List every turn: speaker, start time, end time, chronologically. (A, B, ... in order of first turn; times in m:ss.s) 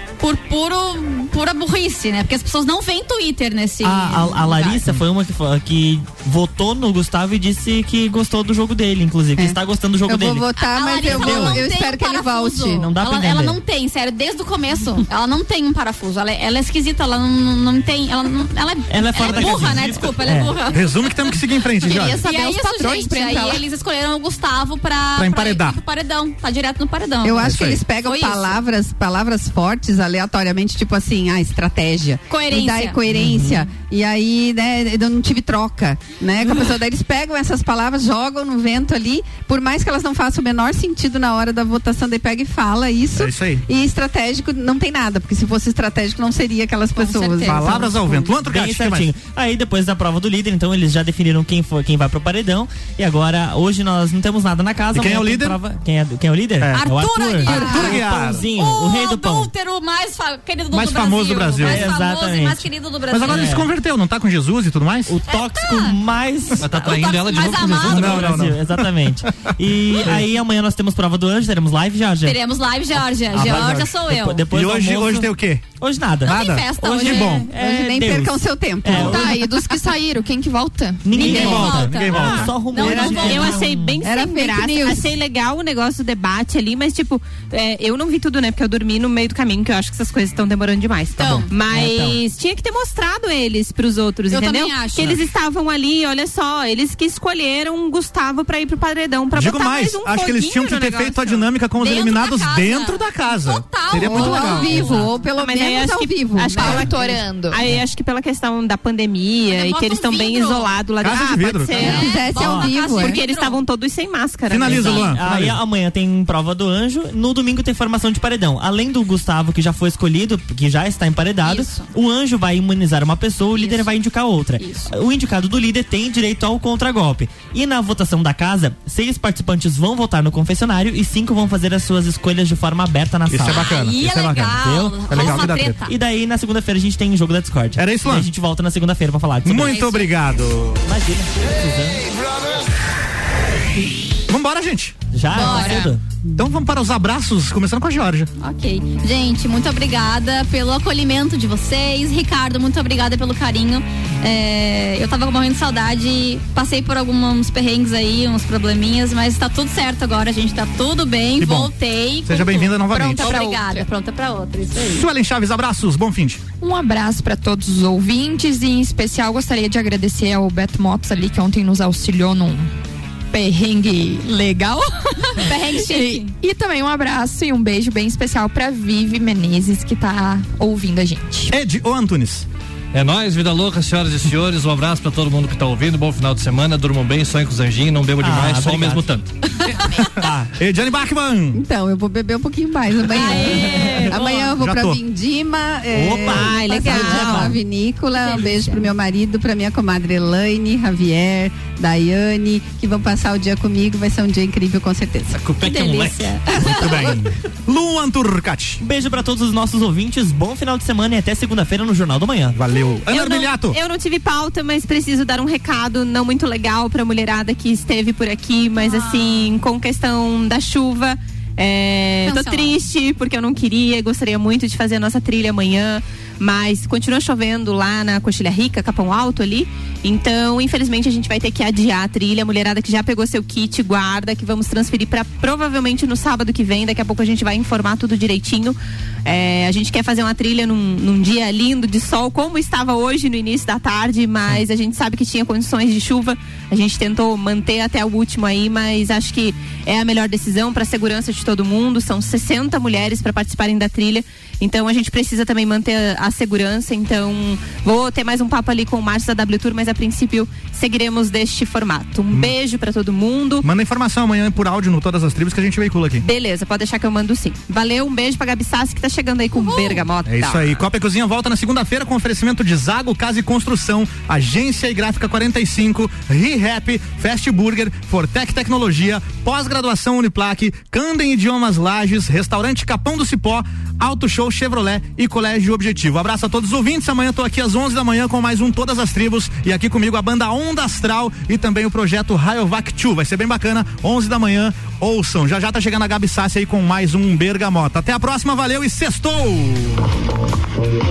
0:00.2-0:04.8 A
0:03.8-0:10.4 B
0:09.4-0:12.9 C
0:10.6-0:20.9 A
0:11.1-0:11.6 B
0:12.7-0:13.6 B
0:18.9-0:20.6 B
0:20.7-0:22.2 D
0:21.8-0:23.6 E
0:21.9-0:28.6 A
0:25.2-0:25.8 D
0:27.2-0:48.3 C
0:27.4-0:27.8 D
0:32.3-0:33.0 A
0:33.1-0:33.7 B
0:43.1-0:43.6 D
0:47.0-0:48.2 A
0:47.4-0:49.1 D
0:48.4-0:59.5 B
0:54.9-0:55.6 D
0:56.6-0:56.8 D
0:56.8-1:03.6 A
0:57.4-0:58.4 D
1:00.7-1:01.9 D
1:01.6-1:02.7 B
1:03.1-1:05.1 D
1:03.2-1:03.7 B
1:05.1-1:06.6 B
1:05.3-1:06.0 A
1:06.6-1:08.4 F
1:06.6-1:08.3 A
1:07.6-1:12.4 B
1:07.9-1:08.6 D
1:12.2-1:14.4 A
1:13.3-1:19.2 B
1:13.3-1:13.9 D
1:14.5-1:15.7 D
1:16.2-1:17.5 D
1:16.3-1:17.5 A
1:17.5-1:19.4 C
1:19.0-1:21.2 E
1:21.0-1:24.1 B
1:21.1-1:22.6 D
1:21.1-1:23.6 A
1:21.2-1:21.7 C
1:22.7-1:25.0 C
1:23.1-1:41.4 G
1:31.2-1:31.5 A
1:31.7-1:32.2 B
1:34.3-1:35.2 A
1:39.3-1:45.1 D
1:41.8-1:45.1 A
1:44.0-1:47.2 C
1:45.1-1:46.8 G
1:46.5-1:47.6 E
1:47.4-1:52.3 G
1:49.5-1:50.7 A
1:51.0-1:51.8 D
1:51.7-1:53.6 A
1:51.8-1:52.7 B
1:51.9-1:53.2 C
1:53.0-1:55.2 G
1:54.5-1:55.6 D
1:54.6-2:13.7 B
2:01.4-2:01.9 A
2:03.6-2:03.9 A
2:04.6-2:04.9 A
2:13.3-2:15.9 D
2:13.6-2:15.9 A
2:14.6-2:19.8 B
2:17.8-2:18.3 D
2:19.4-2:20.8 D
2:19.6-2:20.1 A
2:20.8-2:22.0 B
2:24.3-2:25.0 D
2:25.1-2:26.0 B
2:25.3-2:25.9 A
2:25.5-2:25.9 E
2:26.4-2:28.3 D
2:28.4-2:45.1 A
2:41.4-2:41.7 D
2:42.2-2:43.3 D
2:42.9-2:43.9 E
2:44.8-2:46.4 D
2:46.6-2:52.7 E
2:53.3-3:01.5 E
2:55.4-2:56.3 A
3:01.5-3:02.4 D
3:02.9-3:09.3 F
3:08.2-3:09.0 B
3:10.2-3:10.5 B
3:10.6-3:11.6 D
3:11.5-3:25.5 C
3:13.1-3:14.6 A
3:13.2-3:14.2 G
3:14.6-3:15.0 D
3:15.9-3:17.6 B
3:16.2-3:17.5 G
3:16.7-3:17.2 A
3:18.2-3:18.5 A
3:25.3-3:26.4 F
3:25.6-3:27.1 A
3:26.6-3:28.8 D
3:28.8-3:32.6 B
3:32.6-3:33.8 D
3:33.1-4:23.6 G
3:38.8-3:39.5 A
3:42.2-3:42.8 A
4:23.6-4:26.2 D
4:26.2-4:30.8 G
4:29.5-4:30.0 A
4:30.2-5:00.0 D